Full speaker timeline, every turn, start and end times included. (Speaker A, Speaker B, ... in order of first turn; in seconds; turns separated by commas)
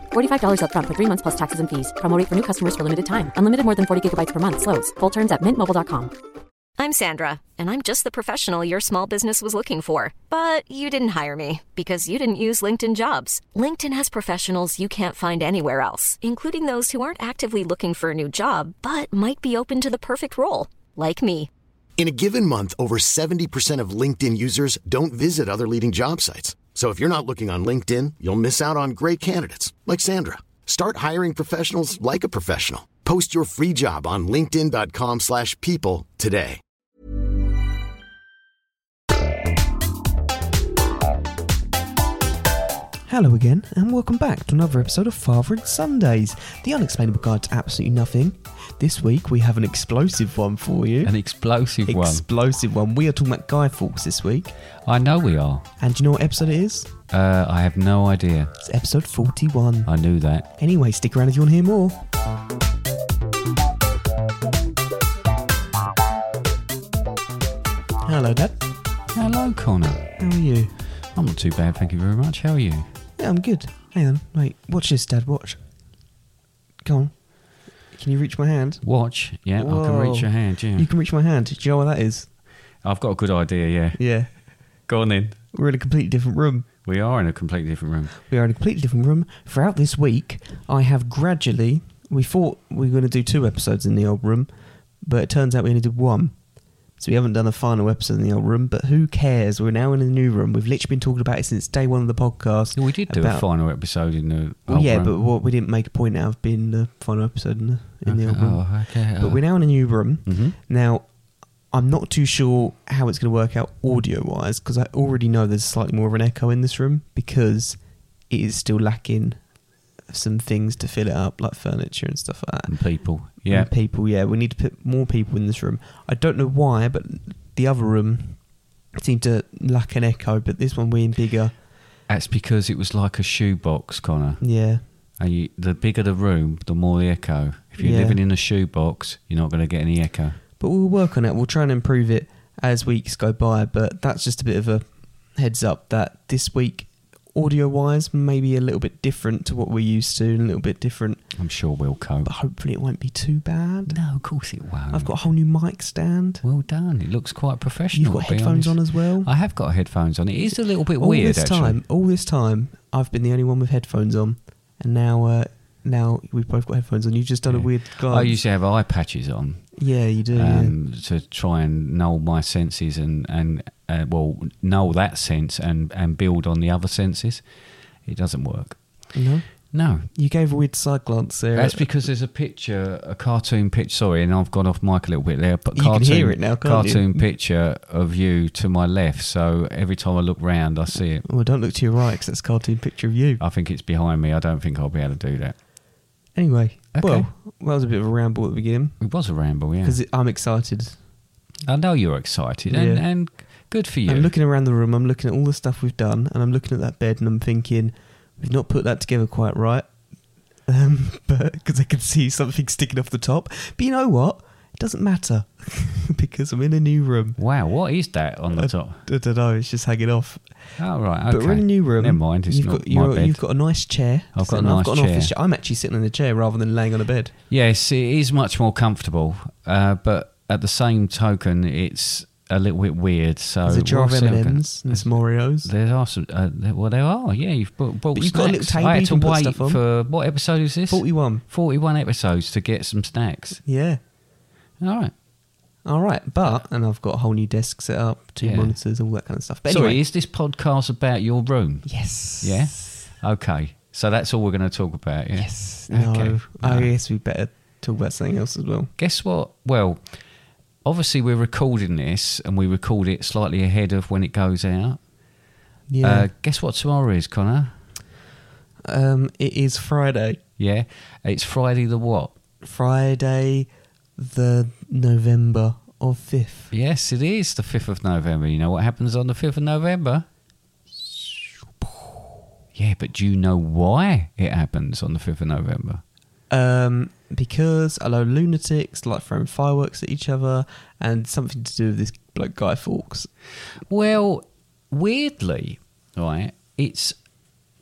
Speaker A: 0.1-6.1, Speaker B: 6.8-21.5, Speaker C: 22.0-36.6, Speaker D: 43.1-51.1, Speaker E: 51.0-52.2, Speaker D: 51.9-54.5, Speaker E: 54.9-55.7, Speaker D: 55.8-56.9, Speaker E: 57.1-58.5, Speaker D: 58.6-59.9, Speaker E: 59.9-60.5, Speaker D: 60.6-62.0, Speaker D: 68.0-68.6, Speaker E: 69.1-70.1, Speaker D: 70.2-70.7, Speaker E: 71.1-72.9, Speaker D: 73.2-75.6, Speaker D: 76.8-77.2, Speaker D: 77.9-78.8, Speaker E: 78.8-80.9, Speaker D: 79.6-82.3, Speaker E: 82.8-84.0, Speaker D: 84.0-84.3, Speaker E: 84.9-85.4, Speaker D: 85.5-86.7, Speaker E: 86.8-88.1, Speaker D: 88.3-94.5, Speaker D: 95.0-96.4, Speaker D: 97.0-103.4, Speaker E: 102.8-105.1, Speaker D: 104.7-108.6, Speaker E: 108.0-109.4, Speaker D: 109.2-111.0, Speaker E: 110.3-110.5, Speaker D: 111.7-117.8, Speaker D: 118.3-119.4, Speaker D: 120.1-122.8, Speaker E: 122.7-123.7, Speaker D: 123.3-128.4, Speaker D: 128.9-131.5, Speaker E: 132.1-134.4, Speaker D: 134.4-134.8, Speaker E: 135.2-140.4, Speaker D: 137.8-138.2, Speaker D: 140.6-151.2, Speaker E: 151.4-152.3, Speaker D: 152.2-154.0, Speaker E: 153.9-155.1, Speaker D: 154.9-156.4, Speaker E: 156.4-161.8, Speaker D: 157.9-159.3, Speaker D: 161.0-168.4, Speaker E: 167.5-169.8, Speaker D: 169.8-170.8, Speaker E: 170.3-177.4, Speaker E: 178.1-179.0, Speaker D: 179.1-179.5, Speaker E: 179.7-180.1, Speaker D: 180.1-181.9, Speaker E: 181.6-191.2, Speaker D: 185.8-187.2, Speaker D: 191.2-193.4, Speaker E: 193.4-195.6, Speaker D: 196.3-199.0, Speaker E: 196.9-197.3, Speaker E: 199.0-200.0, Speaker D: 199.8-201.0, Speaker E: 201.7-204.3, Speaker D: 202.7-203.1, Speaker D: 204.1-209.9, Speaker D: 210.7-217.4, Speaker E: 217.4-219.0, Speaker D: 218.5-220.4, Speaker E: 220.8-223.4, Speaker D: 221.3-227.3, Speaker E: 224.3-225.3, Speaker E: 227.5-243.6, Speaker D: 233.7-235.7, Speaker D: 238.1-239.8, Speaker D: 240.9-241.4, Speaker D: 243.7-244.0, Speaker E: 244.8-245.1, Speaker D: 245.8-250.0, Speaker E: 248.4-248.8, Speaker E: 249.7-256.9, Speaker D: 251.9-253.0, Speaker D: 255.3-258.9, Speaker E: 259.0-260.0, Speaker E: 260.9-265.0, Speaker D: 265.9-266.3, Speaker E: 266.0-267.8, Speaker D: 268.8-270.4, Speaker E: 270.6-272.3, Speaker D: 272.6-276.7, Speaker E: 276.7-280.2, Speaker E: 282.8-286.0, Speaker D: 286.5-293.3, Speaker E: 293.9-297.1